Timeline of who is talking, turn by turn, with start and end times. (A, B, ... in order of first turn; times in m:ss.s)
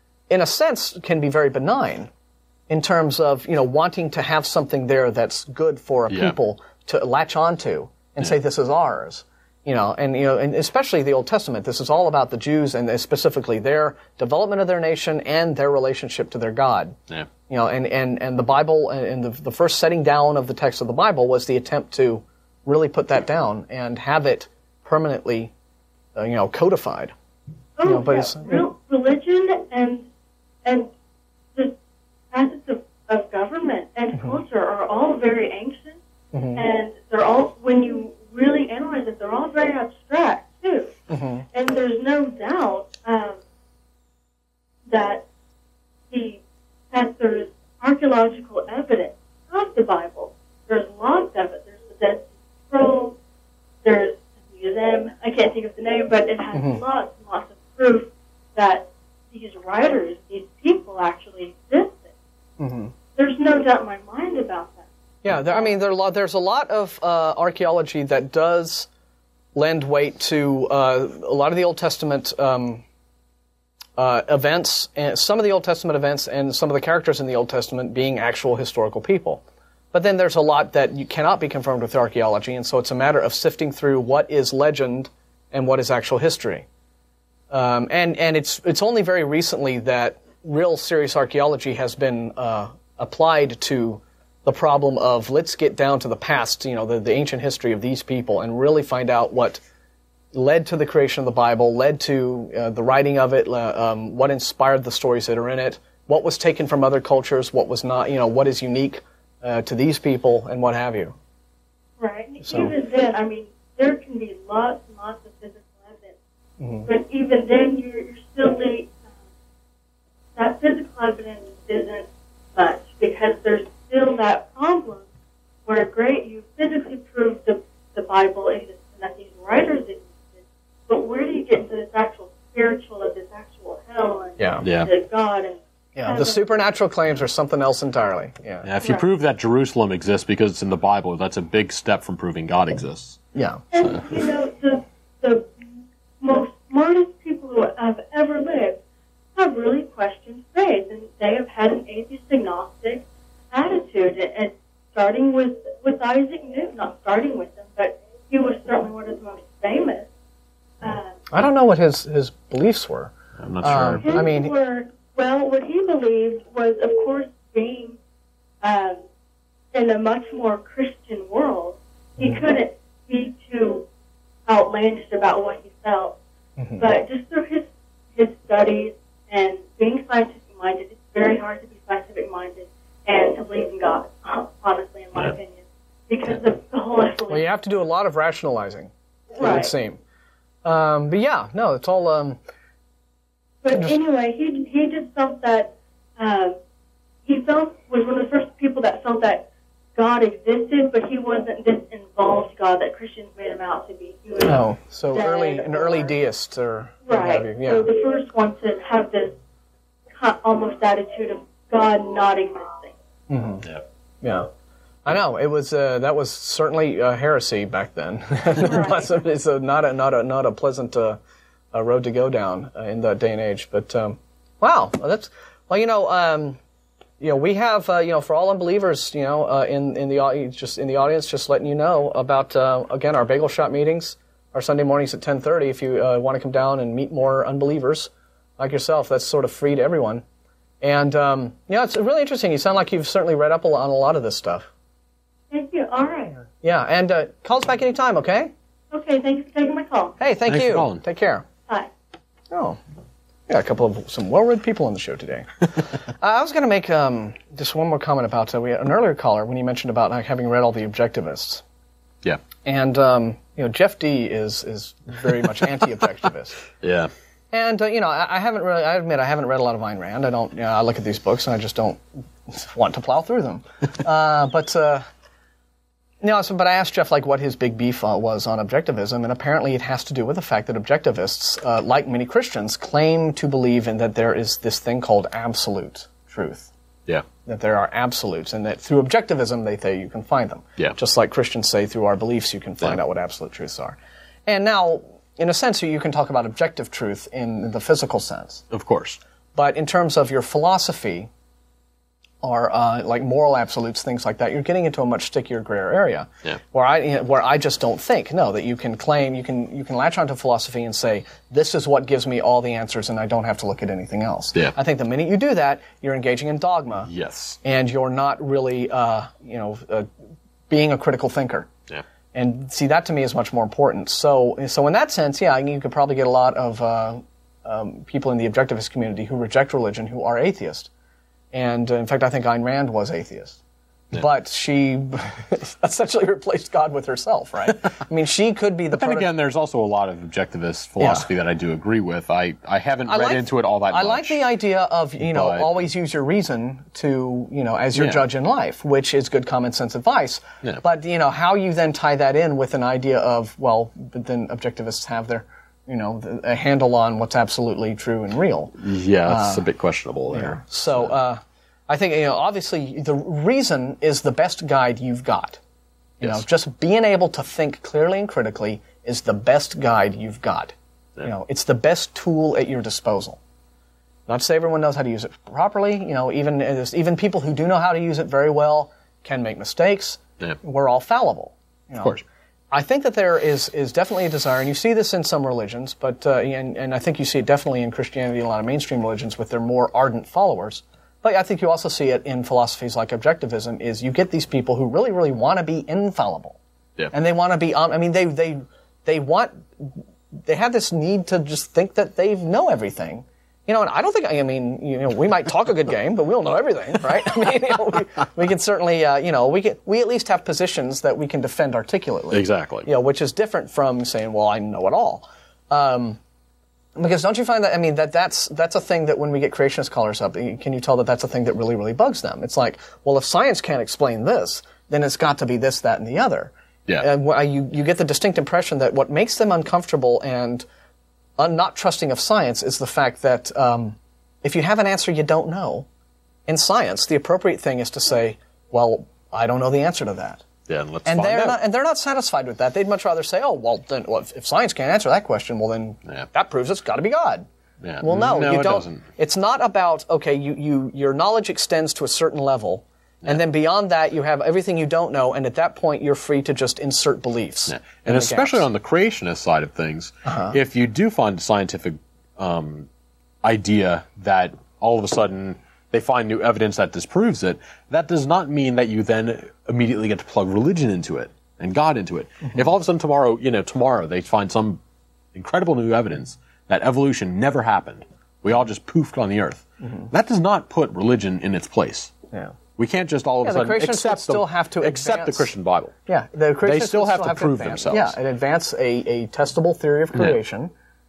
0:00.3-0:02.1 A
0:02.7-0:17.0 A
0:06.1-0:06.4 B
0:17.5-0:25.5 A
0:26.1-0:27.1 A
0:27.8-0:30.1 C
0:27.8-0:28.6 A
0:30.6-0:30.9 C
0:32.3-0:36.0 C
0:36.3-0:36.6 A
0:36.6-0:40.9 C
0:41.1-0:41.4 A
0:41.5-0:43.4 C
0:44.9-0:45.2 C
0:46.1-0:46.4 C
0:46.9-0:53.2 C
0:53.8-1:02.1 C
0:56.5-0:56.8 A
1:02.6-1:02.9 A
1:03.2-1:05.7 C
1:05.2-1:08.9 A
1:09.6-1:12.8 A
1:14.0-1:26.7 A
1:27.5-1:39.6 A
1:40.3-1:51.1 A
1:52.0-1:56.1 C
1:52.4-1:52.7 A
1:56.6-1:56.9 A
1:56.9-1:58.9 C
2:00.4-2:05.0 C
2:05.7-2:10.1 C
2:10.9-2:16.6 C
2:14.4-2:14.6 A
2:14.6-2:14.9 B
2:16.0-2:18.7 A
2:18.6-2:23.2 B
2:23.3-2:23.6 A
2:23.7-2:25.5 C
2:23.8-2:24.2 B
2:26.2-2:28.8 C
2:29.3-2:40.1 C
2:40.8-2:41.2 C
2:41.3-2:44.5 A
2:43.4-2:44.2 B
2:44.0-2:48.0 C
2:48.6-2:49.0 C
2:49.7-2:53.8 C
2:52.2-2:52.4 A
2:54.5-2:56.2 C
2:56.6-2:56.9 A
2:56.8-3:07.5 C
3:07.3-3:10.0 A
3:09.3-3:09.7 C
3:10.6-3:12.4 A
3:13.6-3:16.6 C
3:13.7-3:14.0 A
3:17.2-3:26.1 C
3:24.5-3:27.9 A
3:27.0-3:29.3 C
3:30.2-3:32.9 C
3:33.3-3:33.6 A
3:34.2-3:34.5 A
3:35.0-3:41.2 A
3:38.6-3:39.0 C
3:41.7-3:46.6 A
3:47.2-4:00.2 A
4:00.8-4:04.7 A
4:05.5-4:06.5 C
4:06.6-4:08.5 A
4:08.9-4:10.1 C
4:10.2-4:11.5 A
4:10.5-4:11.0 B
4:12.5-4:12.8 A
4:13.5-4:21.6 A
4:22.6-4:26.6 A
4:26.8-4:27.1 B
4:27.5-4:35.0 A
4:36.2-4:46.7 A
4:47.4-4:58.6 A
4:58.7-4:59.2 B
4:59.6-5:01.3 A
5:02.4-5:17.1 A
5:17.1-5:17.6 B
5:17.6-5:20.1 A
5:20.7-5:21.7 A
5:22.3-5:30.9 A
5:31.5-5:33.6 A
5:34.1-5:39.3 A
5:38.9-5:44.4 B
5:41.0-5:41.3 A
5:43.1-5:59.7 A
5:45.2-5:45.7 B
5:48.0-5:48.2 B
5:58.8-6:01.1 B
6:00.3-6:05.6 A
6:06.2-6:13.4 A
6:14.3-6:22.2 A
6:22.7-6:36.6 A
6:37.1-6:56.2 A
6:52.3-6:52.9 B
6:57.0-7:10.6 A
7:11.4-7:15.9 A
7:16.5-7:20.4 A
7:20.7-7:21.6 B
7:21.0-7:27.5 A
7:27.8-7:29.0 B
7:28.0-7:38.7 A
7:37.7-7:42.9 B
7:40.2-7:40.6 A
7:43.4-7:54.8 B
7:55.3-8:02.1 B
7:59.8-8:00.1 A
8:02.8-8:06.0 B
8:03.4-8:05.5 A
8:06.1-8:10.7 A
8:06.6-8:08.2 B